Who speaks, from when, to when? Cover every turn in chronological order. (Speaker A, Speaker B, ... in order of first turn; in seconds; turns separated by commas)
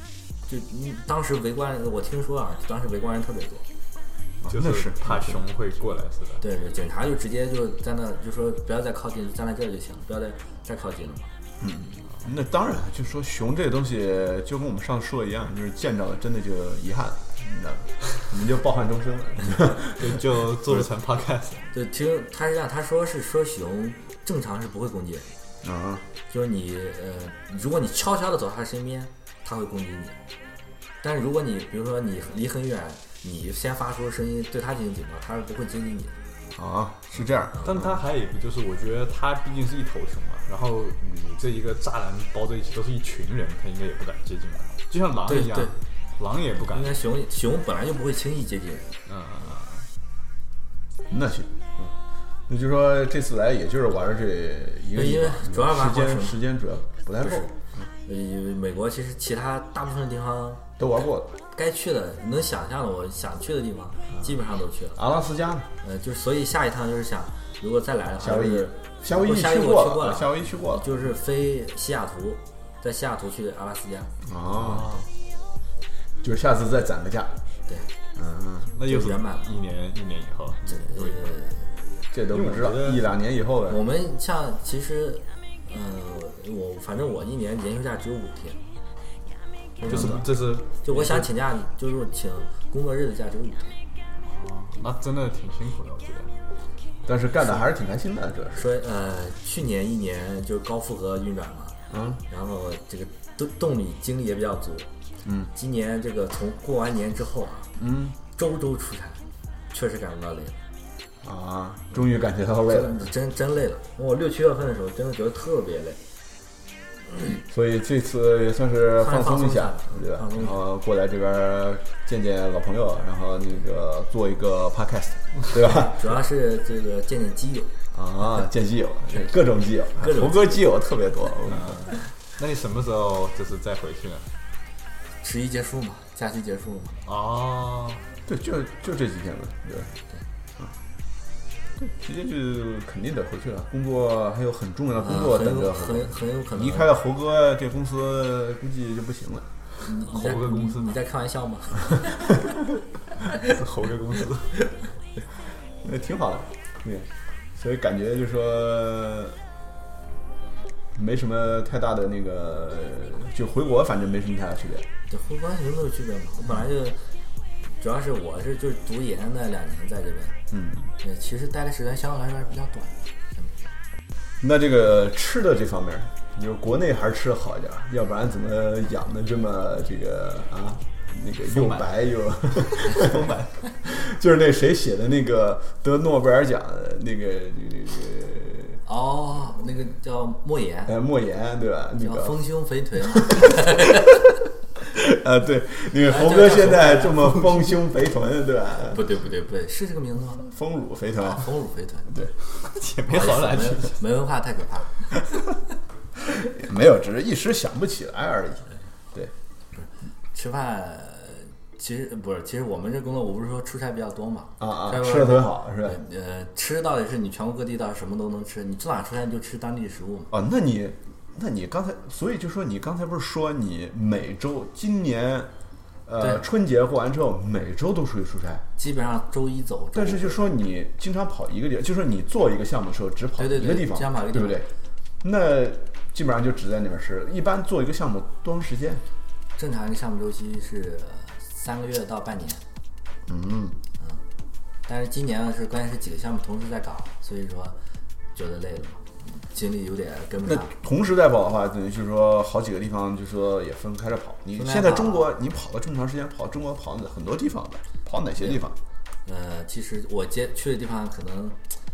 Speaker A: 0.5-3.6, Speaker B: 4.4-5.4, Speaker C: 4.5-6.4, Speaker A: 6.4-11.3, Speaker B: 11.6-20.9, Speaker C: 19.9-21.7, Speaker A: 21.7-25.3, Speaker B: 25.6-26.0, Speaker A: 26.3-30.2, Speaker A: 31.0-36.2, Speaker B: 36.5-38.0, Speaker C: 37.6-47.0, Speaker A: 45.3-45.8, Speaker A: 46.7-48.9, Speaker C: 49.1-49.9, Speaker B: 51.1-51.9, Speaker B: 52.5-57.9, Speaker A: 54.9-56.4, Speaker A: 58.0-60.6, Speaker B: 60.8-61.3, Speaker A: 61.5-65.0, Speaker B: 65.0-65.7, Speaker A: 65.8-74.1, Speaker B: 68.2-70.9, Speaker B: 74.2-75.0, Speaker C: 74.6-75.1, Speaker B: 76.2-77.3, Speaker B: 78.2-78.7, Speaker C: 78.8-81.4, Speaker A: 78.8-79.5, Speaker A: 80.7-81.7, Speaker B: 82.1-83.8, Speaker C: 82.3-83.0, Speaker A: 83.7-88.6, Speaker A: 89.8-90.3, Speaker C: 89.9-91.3, Speaker A: 90.8-93.8, Speaker C: 94.2-96.3, Speaker B: 97.0-98.7, Speaker A: 98.5-101.8, Speaker B: 101.9-102.2, Speaker A: 102.3-104.9, Speaker B: 105.2-105.5, Speaker A: 105.5-107.7, Speaker B: 107.8-108.2, Speaker A: 108.3-110.6, Speaker B: 111.2-113.1, Speaker A: 112.7-116.0, Speaker B: 117.5-126.0, Speaker A: 119.0-120.6, Speaker A: 125.7-127.7, Speaker B: 127.9-131.8, Speaker A: 130.0-130.6, Speaker C: 131.5-134.3, Speaker A: 135.2-137.0, Speaker C: 137.1-138.0, Speaker B: 138.3-139.9, Speaker B: 141.8-149.5, Speaker A: 145.0-146.9, Speaker A: 149.8-152.4, Speaker C: 150.1-151.0, Speaker A: 153.2-153.5, Speaker C: 153.4-154.6, Speaker B: 155.8-159.4, Speaker B: 160.9-164.9, Speaker A: 165.1-167.0, Speaker A: 167.8-170.4, Speaker B: 170.5-170.9, Speaker A: 171.0-173.7, Speaker B: 174.4-188.8, Speaker C: 181.4-181.9, Speaker C: 182.8-183.5, Speaker A: 188.9-191.0, Speaker B: 190.9-192.4, Speaker A: 192.0-194.2, Speaker B: 193.2-193.8, Speaker B: 194.9-199.0, Speaker A: 196.1-197.4, Speaker A: 198.9-200.5, Speaker B: 200.4-201.5, Speaker A: 201.2-202.2, Speaker C: 202.5-204.0, Speaker A: 203.1-205.2, Speaker B: 206.5-209.3, Speaker A: 209.8-220.3, Speaker B: 214.6-216.0, Speaker B: 220.3-225.5, Speaker B: 226.1-228.6, Speaker A: 228.8-230.5, Speaker B: 229.9-234.7, Speaker A: 233.4-234.7, Speaker B: 235.2-239.0, Speaker A: 239.6-242.6, Speaker B: 243.3-243.8, Speaker A: 244.9-247.8, Speaker A: 248.3-250.7, Speaker B: 250.5-258.8, Speaker A: 254.6-255.3, Speaker A: 259.2-261.6